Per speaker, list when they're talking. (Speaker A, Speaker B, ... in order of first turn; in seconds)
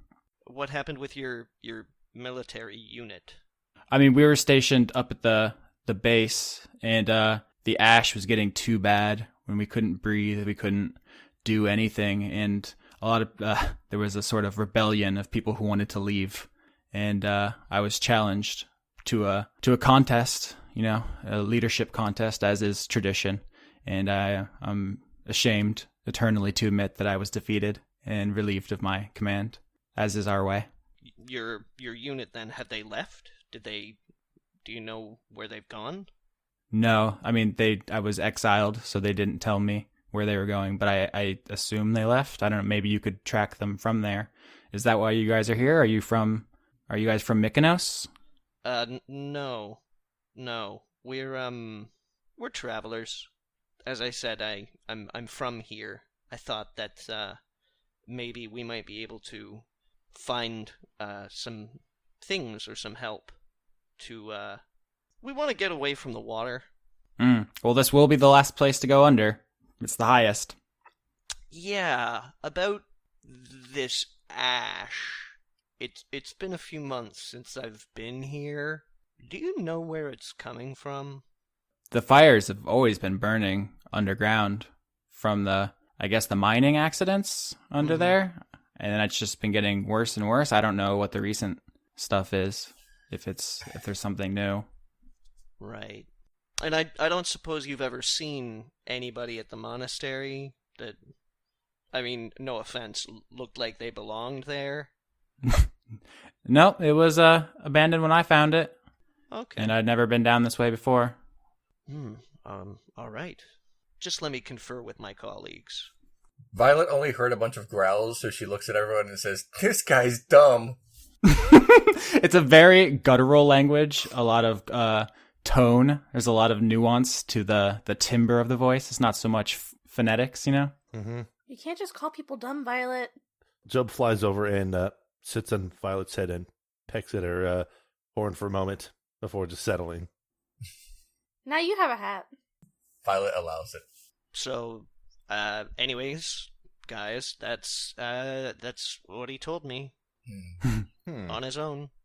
Speaker A: 0.4-3.4, 31.2-34.0, 34.6-36.1, 48.6-49.8, 50.4-53.3, 53.9-57.4, 58.1-63.3, 64.0-64.6, 65.2-66.6, 71.5-81.2, 87.8-88.2, 95.6-96.1, 96.6-101.0, 101.9-104.9, 109.3-109.7, 111.9-113.4, 114.0-115.9, 144.3-149.9, 151.3-151.9
Speaker B: 3.9-30.7, 36.7-48.1, 67.2-70.5, 81.9-94.7, 105.4-105.7, 106.4-108.7, 109.6-111.2, 121.2-130.7
Speaker C: 116.5-120.8, 143.0-143.8, 150.3-150.6
Speaker D: 130.9-131.3, 133.7-140.1, 151.1-151.4
Speaker E: 131.5-133.1, 141.4-142.3